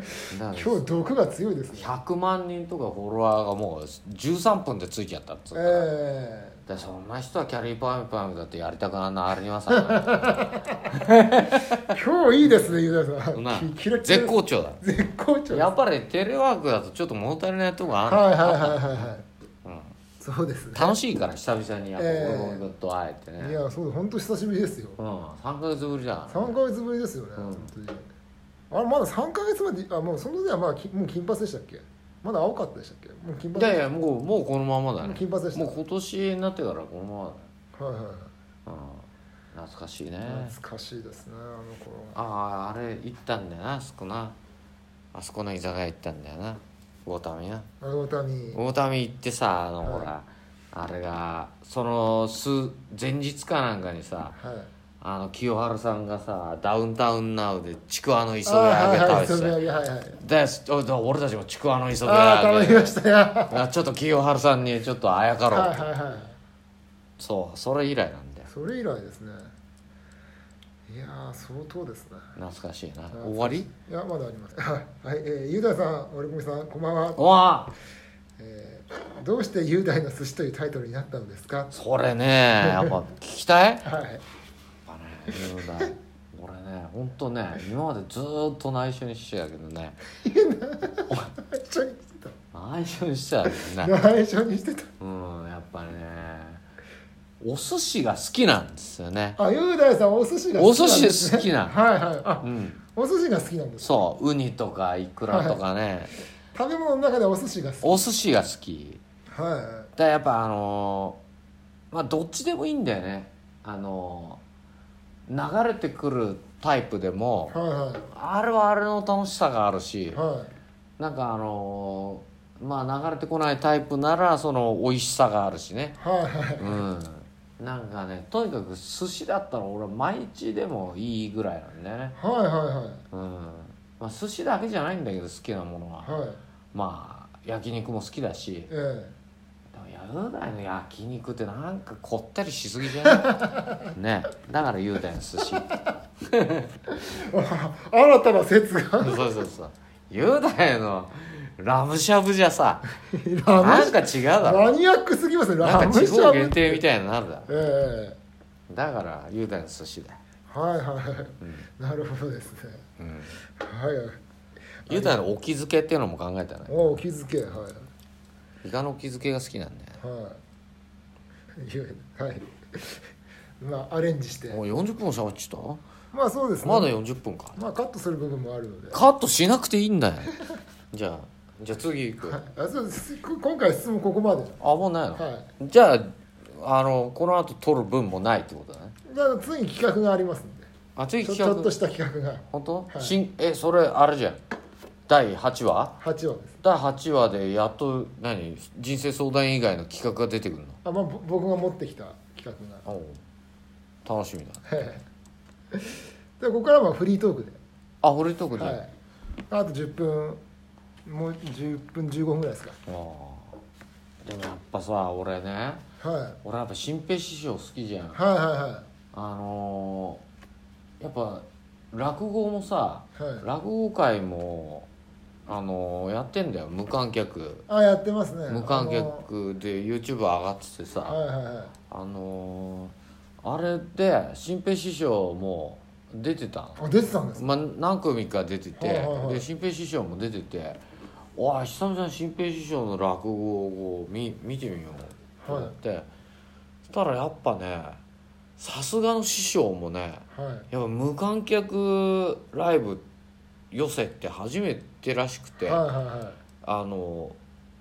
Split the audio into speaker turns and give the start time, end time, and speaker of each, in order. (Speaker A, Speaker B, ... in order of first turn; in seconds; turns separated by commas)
Speaker A: 0.3-0.8, Speaker B: 0.5-1.9, Speaker A: 1.7-5.9, Speaker B: 5.5-6.6, Speaker A: 6.7-12.0, Speaker B: 9.7-11.1, Speaker B: 11.8-15.7, Speaker A: 13.3-14.8, Speaker A: 15.5-19.1, Speaker B: 18.1-19.2, Speaker A: 19.6-19.9, Speaker B: 20.2-21.0, Speaker A: 20.7-23.6, Speaker B: 22.0-22.6, Speaker B: 23.4-25.0, Speaker A: 25.0-26.6, Speaker B: 26.3-28.1, Speaker A: 27.4-27.7, Speaker B: 28.7-33.8, Speaker A: 33.5-37.5, Speaker B: 35.0-35.7, Speaker B: 37.8-38.3, Speaker A: 38.6-40.5, Speaker B: 40.2-42.2, Speaker A: 42.1-44.4, Speaker A: 45.1-47.7, Speaker B: 47.8-48.6, Speaker A: 48.5-54.4, Speaker B: 49.8-50.1, Speaker B: 54.4-54.7, Speaker A: 55.0-59.6, Speaker B: 58.5-60.2, Speaker A: 60.2-63.0, Speaker B: 62.0-63.6, Speaker A: 63.5-65.8, Speaker B: 65.5-66.3, Speaker A: 67.2-68.5, Speaker B: 68.5-69.5, Speaker B: 70.9-72.3, Speaker A: 72.3-73.7, Speaker B: 73.1-77.2, Speaker A: 77.2-77.7, Speaker B: 78.4-81.7, Speaker A: 81.7-83.9, Speaker B: 82.6-82.9, Speaker B: 83.8-84.2, Speaker A: 84.8-90.0, Speaker B: 90.1-92.3, Speaker A: 92.5-93.9, Speaker B: 93.5-94.9, Speaker A: 95.0-96.6, Speaker A: 97.4-99.4, Speaker B: 99.4-104.0, Speaker A: 100.5-101.8, Speaker A: 102.4-102.8, Speaker A: 103.8-106.1, Speaker B: 105.3-105.6, Speaker B: 106.5-108.0, Speaker A: 107.8-109.0, Speaker B: 109.3-109.9, Speaker A: 110.0-111.2, Speaker A: 111.9-114.4, Speaker A: 115.3-117.6, Speaker B: 117.5-118.1, Speaker A: 118.1-120.2, Speaker B: 120.1-120.5, Speaker A: 121.0-126.0, Speaker B: 126.0-126.8, Speaker A: 126.6-132.2, Speaker B: 132.2-133.0, Speaker A: 133.1-136.1, Speaker B: 136.0-136.4, Speaker A: 136.7-138.7, Speaker B: 138.7-139.1, Speaker A: 139.7-143.3, Speaker B: 143.0-143.9, Speaker A: 143.9-146.7, Speaker B: 146.9-149.2, Speaker A: 149.0-152.9, Speaker B: 153.0-156.8, Speaker A: 153.5-154.7, Speaker A: 155.6-157.5, Speaker B: 157.5-158.2, Speaker A: 158.7-160.2, Speaker B: 160.5-162.8, Speaker A: 161.4-161.7, Speaker A: 163.0-163.3, Speaker B: 163.6-164.2, Speaker B: 164.8-165.2, Speaker A: 164.9-166.9, Speaker B: 166.7-167.9, Speaker A: 168.6-170.0, Speaker B: 170.0-170.4, Speaker B: 171.6-173.1, Speaker B: 173.6-174.6, Speaker A: 174.5-175.8, Speaker B: 176.1-176.9, Speaker A: 176.6-177.6, Speaker B: 177.6-179.0, Speaker A: 178.9-180.3, Speaker A: 180.9-182.4, Speaker B: 182.3-184.6, Speaker A: 184.6-188.9, Speaker B: 185.2-185.5, Speaker B: 189.1-190.7, Speaker A: 190.9-191.7, Speaker B: 191.2-193.2, Speaker A: 192.5-194.4, Speaker A: 195.1-196.0, Speaker B: 196.0-196.6, Speaker A: 196.6-200.8, Speaker B: 200.8-202.8, Speaker A: 202.8-203.2, Speaker A: 204.0-204.7, Speaker B: 204.7-205.0, Speaker B: 205.7-207.6, Speaker A: 208.0-208.8, Speaker B: 208.6-208.9, Speaker B: 209.5-210.4, Speaker B: 211.0-212.8, Speaker A: 212.8-213.6, Speaker A: 214.2-215.8, Speaker B: 216.0-216.4, Speaker A: 216.4-218.2, Speaker B: 218.1-218.9, Speaker A: 219.1-220.2, Speaker A: 221.0-224.9, Speaker B: 223.2-223.4, Speaker A: 225.5-227.7, Speaker B: 227.7-229.2, Speaker A: 228.5-231.2, Speaker B: 231.0-231.7, Speaker A: 231.9-236.8, Speaker B: 236.8-237.4, Speaker A: 237.3-240.8, Speaker B: 238.8-239.4, Speaker A: 241.3-246.1, Speaker B: 245.4-245.7, Speaker A: 246.9-248.0, Speaker A: 248.6-253.0, Speaker B: 250.3-250.7, Speaker A: 253.7-255.8, Speaker B: 255.6-256.4, Speaker A: 256.6-257.4